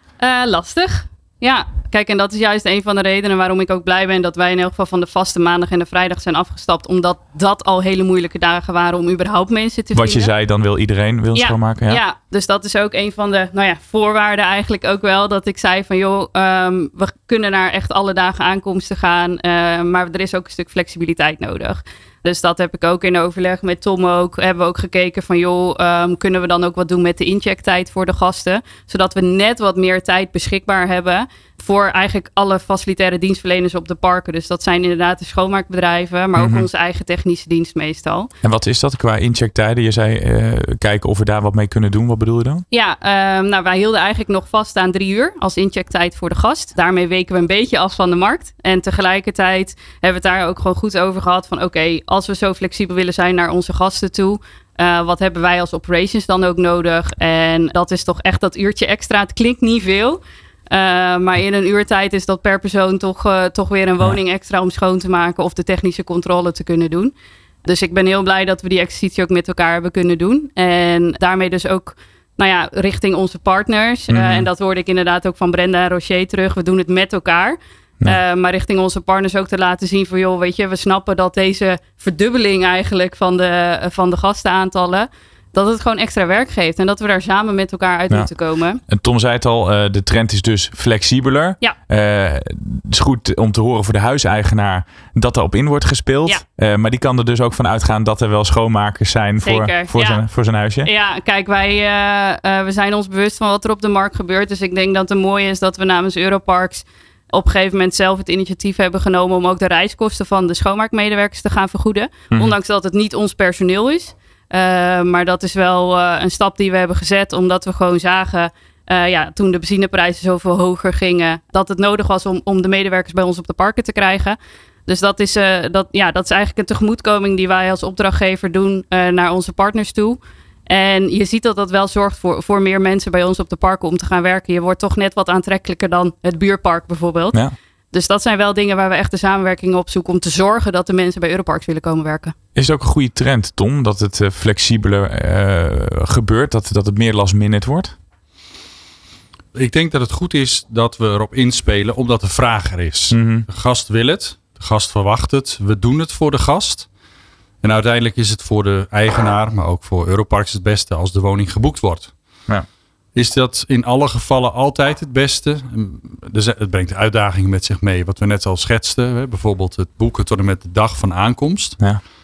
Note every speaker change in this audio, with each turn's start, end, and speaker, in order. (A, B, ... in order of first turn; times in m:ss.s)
0:00.2-0:10.3 A
0:09.9-0:12.0 B
0:11.3-0:38.3 A
0:36.4-0:36.7 B
0:38.4-0:42.6 B
0:42.7-1:07.1 A
1:07.6-1:28.8 A
1:14.1-1:14.5 B
1:28.9-1:40.9 B
1:39.4-1:40.2 A
1:40.8-2:22.4 A
2:22.6-2:27.9 B
2:29.6-2:36.9 C
2:33.1-2:33.5 B
2:37.6-2:42.1 C
2:43.2-2:51.8 C